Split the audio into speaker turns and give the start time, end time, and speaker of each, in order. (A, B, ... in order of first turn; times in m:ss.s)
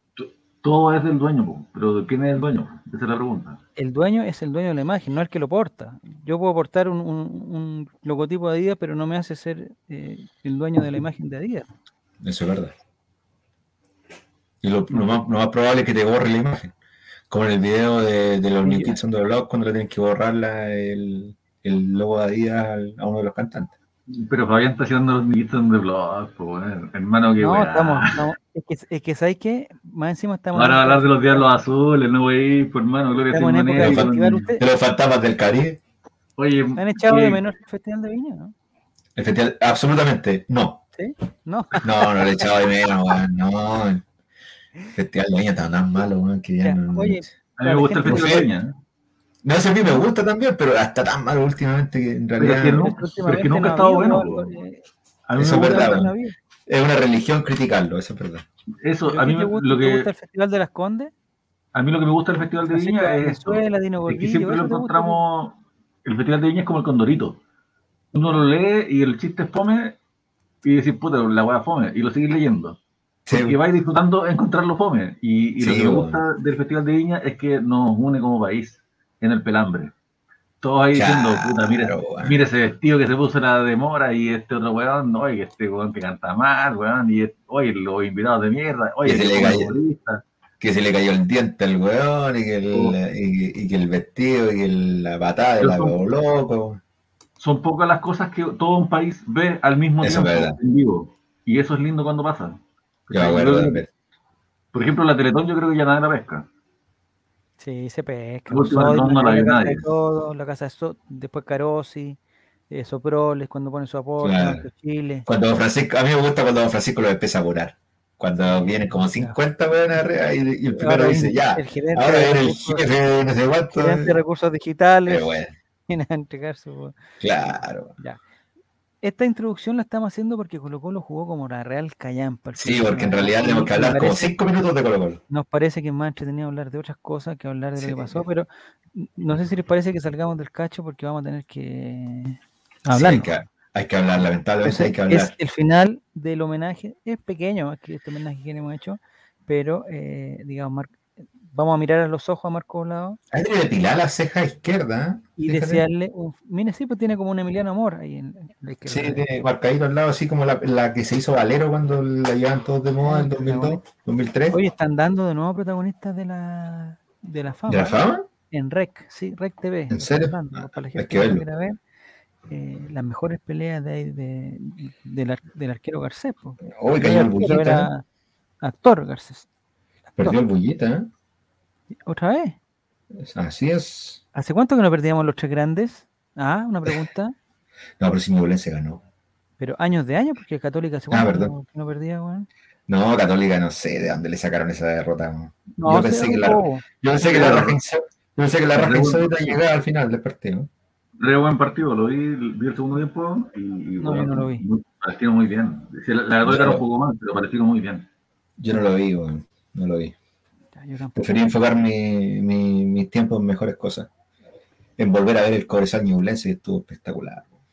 0:00.2-0:03.6 A
0:03.8-0:11.7 B
0:12.2-0:12.7 C
0:14.6-0:16.7 C
0:17.3-0:23.7 C
0:18.6-0:19.0 B
0:24.1-0:28.3 A
0:27.4-0:31.4 B
0:30.5-0:34.5 A
0:33.1-0:34.6 B
0:33.8-0:35.8 C
0:36.4-0:37.4 A
0:36.8-0:38.5 B
0:39.2-0:40.8 C
0:41.0-0:42.5 B
0:41.8-0:44.0 C
0:44.9-0:47.3 C
0:46.6-0:48.4 B
0:47.6-0:48.7 A
0:48.0-0:48.5 C
0:49.4-0:52.9 C
0:52.4-0:54.6 A
0:52.8-0:54.8 B
0:55.3-0:56.0 A
0:55.3-0:56.1 C
0:55.4-0:56.3 B
0:56.7-0:58.4 C
0:58.8-1:00.1 A
0:59.1-1:01.1 B
1:01.7-1:07.4 A
1:02.7-1:05.2 B
1:08.1-1:10.0 A
1:10.6-1:12.8 A
1:13.3-1:13.6 C
1:13.3-1:19.9 A
1:15.6-1:16.2 C
1:20.6-1:30.2 A
1:20.9-1:22.4 C
1:29.0-1:29.7 C
1:30.6-1:36.8 C
1:35.6-1:36.0 A
1:37.4-1:43.8 A
1:40.0-1:40.6 C
1:43.1-1:43.9 C
1:44.7-1:46.4 A
1:47.6-1:52.2 B
1:48.5-1:49.8 A
1:52.7-1:55.2 B
1:54.2-1:54.6 C
1:55.3-2:04.1 C
1:58.4-1:59.4 B
2:00.8-2:02.9 B
2:03.7-2:05.3 B
2:05.1-2:05.5 C
2:05.9-2:07.0 B
2:07.2-2:07.9 C
2:09.0-2:14.4 B
2:12.6-2:15.2 C
2:15.3-2:23.3 B
2:17.8-2:18.2 C
2:22.9-2:25.3 C
2:24.6-2:31.0 B
2:31.5-2:33.2 B
2:33.3-2:35.8 C
2:35.4-2:39.2 B
2:38.9-2:44.6 C
2:43.0-2:43.8 B
2:44.5-2:51.8 B
2:47.7-2:48.2 C
2:49.9-2:50.4 C
2:50.9-2:51.4 C
2:52.5-2:58.0 B
2:56.7-2:57.9 C
2:58.6-2:59.5 B
3:00.2-3:01.1 C
3:02.0-3:02.6 B
3:03.2-3:04.2 C
3:04.3-3:07.3 B
3:08.0-3:09.0 C
3:09.6-3:12.5 B
3:11.1-3:11.5 C
3:12.9-3:20.7 C
3:15.8-3:16.8 B
3:17.2-3:17.7 A
3:18.7-3:19.5 A
3:21.2-3:28.0 A
3:24.0-3:24.6 B
3:26.4-3:26.8 C
3:28.6-3:30.1 C
3:30.7-3:31.4 B
3:31.2-3:34.1 C
3:35.0-3:37.4 C